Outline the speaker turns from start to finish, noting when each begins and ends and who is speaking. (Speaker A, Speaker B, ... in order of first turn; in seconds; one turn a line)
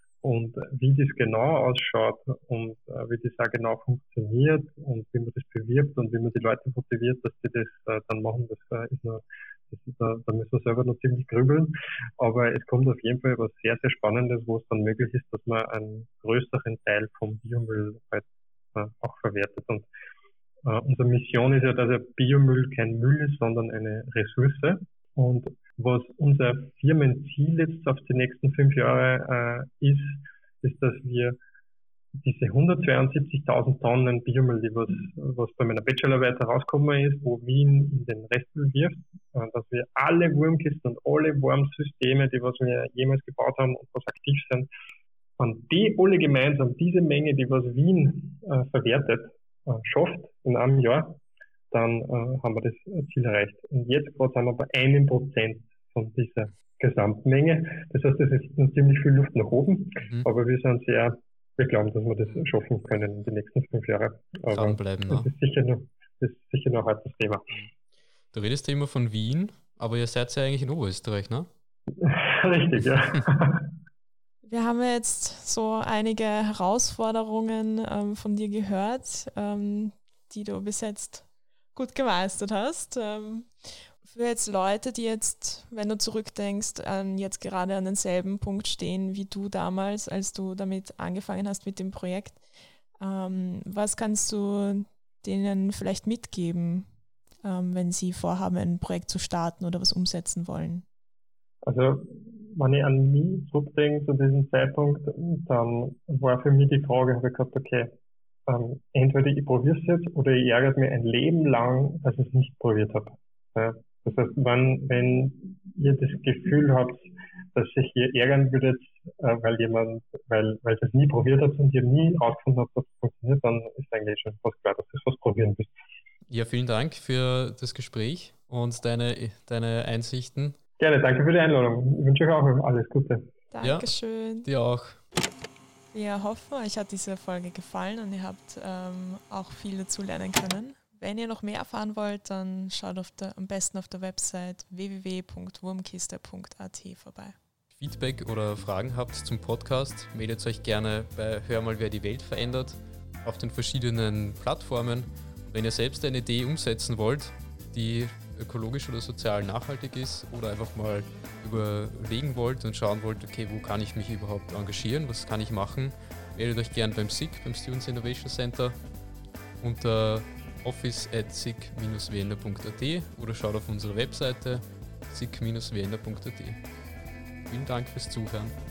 Speaker A: 0.2-19.9
Speaker A: 20.6-31.4
Speaker A: 32.2-44.7
Speaker A: 45.4-51.2
Speaker A: 51.7-67.5
Speaker B: 60.0-60.3
Speaker B: 64.5-65.3
Speaker B: 68.3-71.5
Speaker A: 71.9-73.7
Speaker C: 74.4-92.4
Speaker C: 93.0-96.9
Speaker C: 97.4-100.8
Speaker A: 101.6-107.9
Speaker A: 108.5-125.7
Speaker B: 126.3-130.6
Speaker A: 130.8-133.3
Speaker C: 133.5-134.5
Speaker B: 133.6-133.9
Speaker B: 134.4-135.0
Speaker C: 135.9-147.3
Speaker B: 147.7-168.8
Speaker B: 169.6-176.6
Speaker B: 177.5-178.5